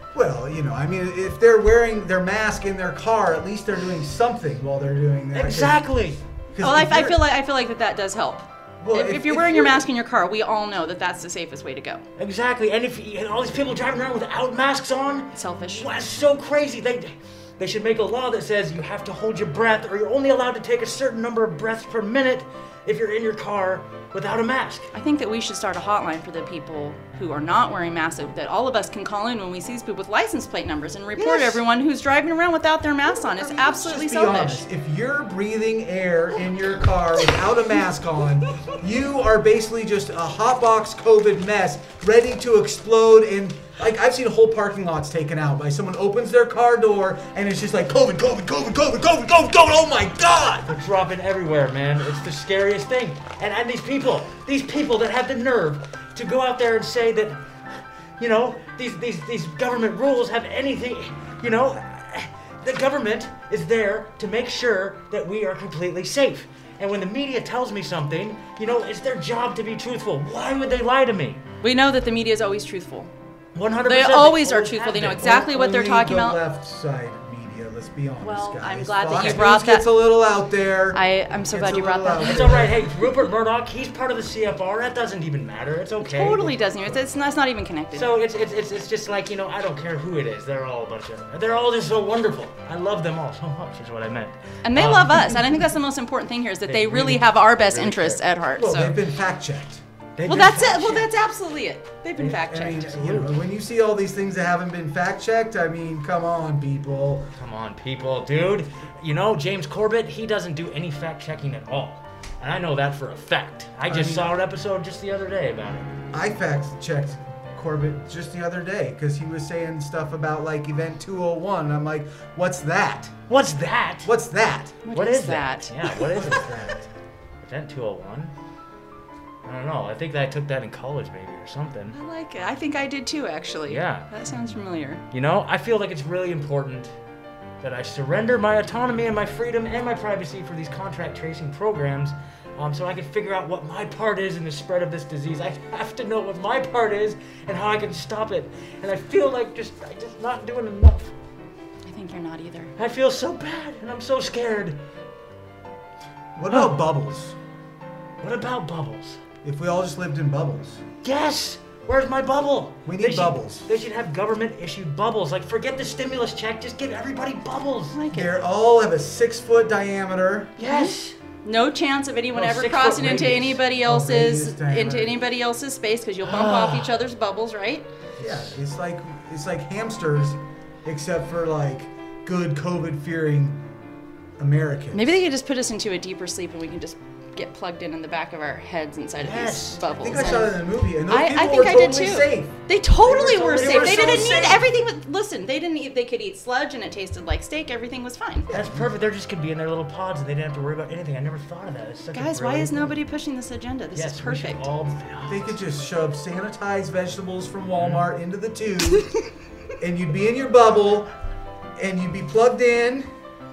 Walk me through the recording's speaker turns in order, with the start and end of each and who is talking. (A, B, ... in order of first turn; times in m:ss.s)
0:00.1-0:05.8 A
0:05.3-0:06.2 B
0:06.5-0:07.2 A
0:06.6-0:12.0 C
0:08.8-0:09.8 A
0:12.2-0:24.9 B
0:15.3-0:15.9 C
0:24.9-0:34.6 C
0:31.2-0:31.6 B
0:33.2-0:50.7 A
0:50.6-0:57.4 B
0:58.2-1:11.4 B
1:11.6-1:13.1 C
1:13.5-1:15.2 B
1:13.8-1:16.4 C
1:15.1-1:22.8 A
1:18.2-1:19.9 C
1:19.1-1:19.4 B
1:20.9-1:22.7 C
1:22.2-1:26.6 B
1:26.0-1:28.1 C
1:27.9-1:35.4 B
1:34.6-1:38.9 C
1:36.6-1:38.2 B
1:38.5-1:39.8 A
1:40.2-1:41.1 B
1:40.2-1:43.3 C
1:42.2-1:47.3 A
1:43.0-1:43.3 B
1:47.4-1:55.9 B
1:53.9-1:54.3 A
1:56.1-2:03.1 A
2:03.3-2:04.1 B
2:04.0-2:04.8 A
2:04.8-2:05.9 C
2:04.9-2:06.8 B
2:06.0-2:06.9 A
2:07.4-2:08.3 B
2:09.4-2:12.0 B
2:11.9-2:15.0 C
2:13.7-2:14.1 B
2:15.1-2:16.9 B
2:17.6-2:31.1 B
2:31.9-2:32.7 C
2:32.8-2:34.8 B
2:36.4-2:37.4 A
2:36.5-2:36.8 B
2:38.2-2:39.2 B
2:39.4-2:40.8 A
2:41.0-2:48.0 B
2:42.8-2:43.7 A
2:47.9-2:48.4 C
2:48.1-2:50.6 A
2:50.6-2:51.2 B
2:50.6-2:57.8 C
2:52.3-2:53.6 B
2:53.8-2:55.2 A
2:56.2-2:57.0 B
2:58.2-3:03.6 A
3:04.4-3:05.2 A
3:04.9-3:18.5 C
3:09.2-3:10.4 B
3:10.0-3:14.7 A
3:13.0-3:14.5 B
3:18.5-3:18.9 A
3:18.5-3:23.0 B
3:22.1-3:24.7 C
3:23.9-3:25.6 B
3:25.3-3:29.1 A
3:27.8-3:28.1 B
3:29.8-3:31.1 A
3:31.8-3:33.1 A